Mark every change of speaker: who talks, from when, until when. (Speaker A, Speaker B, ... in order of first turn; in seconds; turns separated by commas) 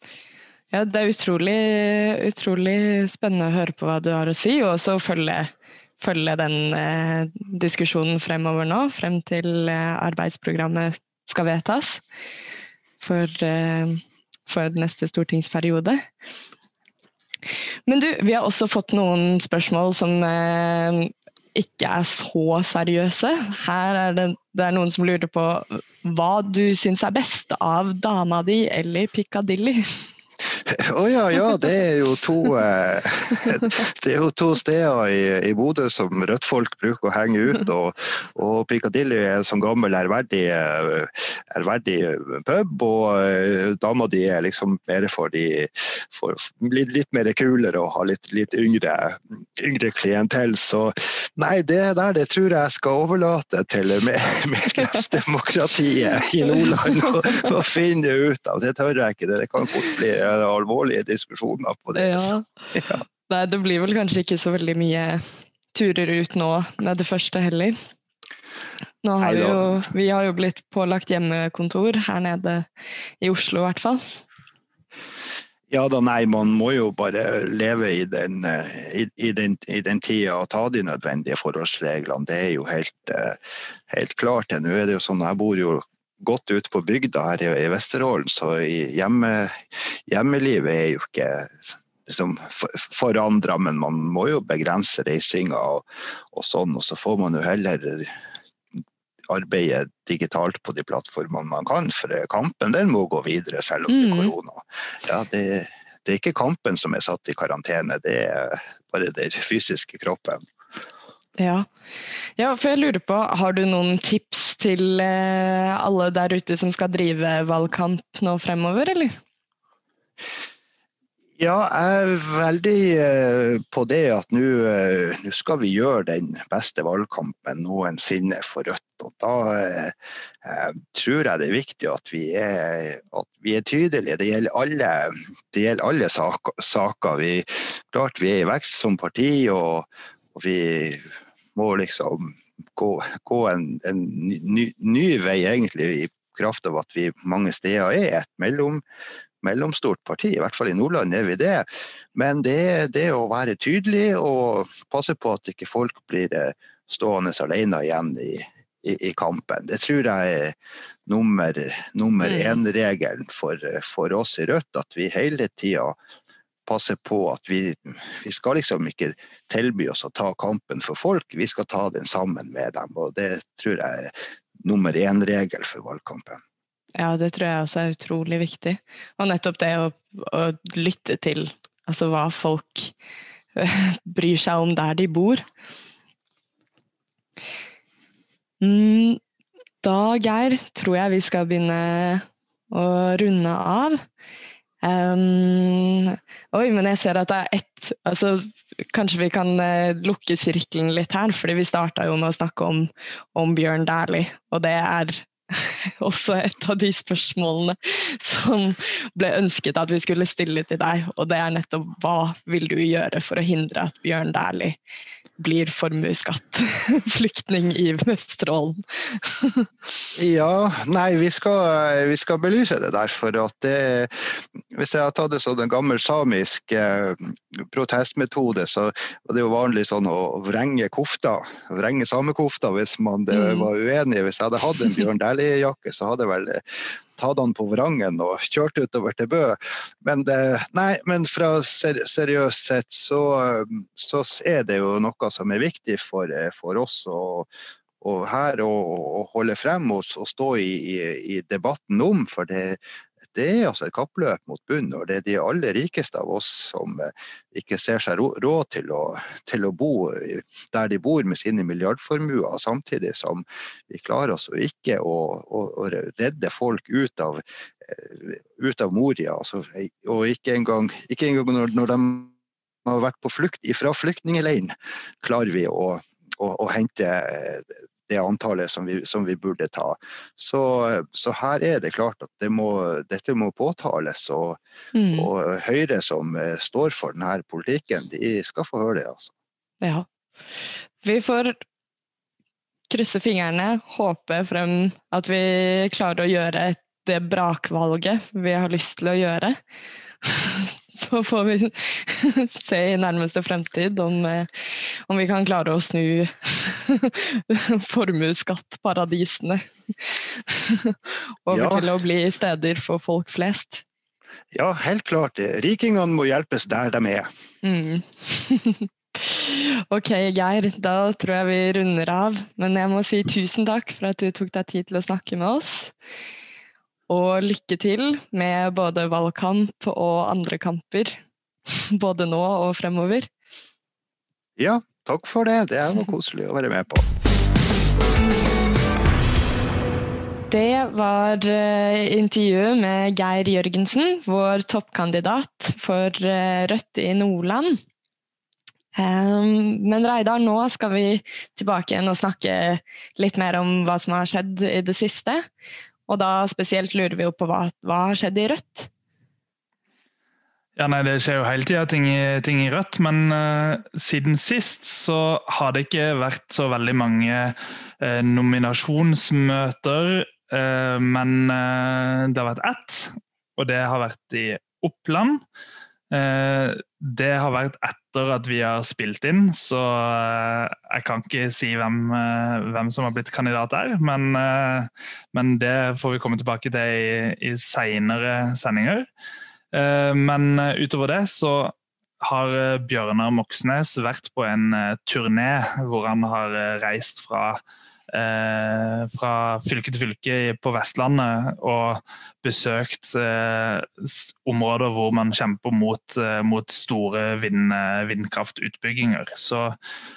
Speaker A: 0.7-12.0, Speaker A: 13.0-16.0, Speaker A: 17.9-30.0, Speaker B: 30.7-63.0, Speaker A: 56.7-57.5, Speaker A: 62.0-62.5, Speaker A: 63.3-67.8, Speaker A: 69.0-72.7, Speaker B: 69.2-69.8, Speaker A: 73.2-74.0, Speaker B: 75.7-83.4, Speaker B: 83.9-98.1, Speaker B: 99.3-110.4, Speaker A: 103.9-104.3, Speaker A: 111.4-111.7, Speaker A: 112.4-119.2, Speaker B: 121.4-148.8, Speaker B: 149.4-160.6, Speaker B: 161.1-166.0, Speaker A: 162.3-162.6, Speaker B: 166.7-176.4, Speaker A: 176.9-182.9, Speaker A: 183.5-185.4, Speaker A: 188.6-189.2, Speaker A: 189.8-194.0, Speaker A: 194.8-214.8, Speaker A: 215.4-219.7, Speaker B: 220.1-247.5, Speaker A: 233.3-233.7, Speaker B: 248.0-272.3, Speaker B: 272.8-284.6, Speaker A: 284.9-285.3, Speaker B: 285.1-289.3, Speaker A: 289.8-290.1, Speaker A: 291.0-291.6, Speaker A: 292.9-299.6, Speaker A: 300.2-313.8, Speaker B: 311.5-311.9, Speaker B: 314.5-317.3, Speaker A: 317.6-325.9, Speaker A: 327.1-331.2, Speaker A: 331.9-333.3, Speaker B: 334.6-337.0, Speaker A: 340.5-347.8, Speaker A: 348.9-355.4, Speaker A: 356.1-358.9, Speaker C: 360.8-375.4, Speaker C: 376.1-389.1, Speaker C: 389.7-397.6, Speaker C: 398.1-409.8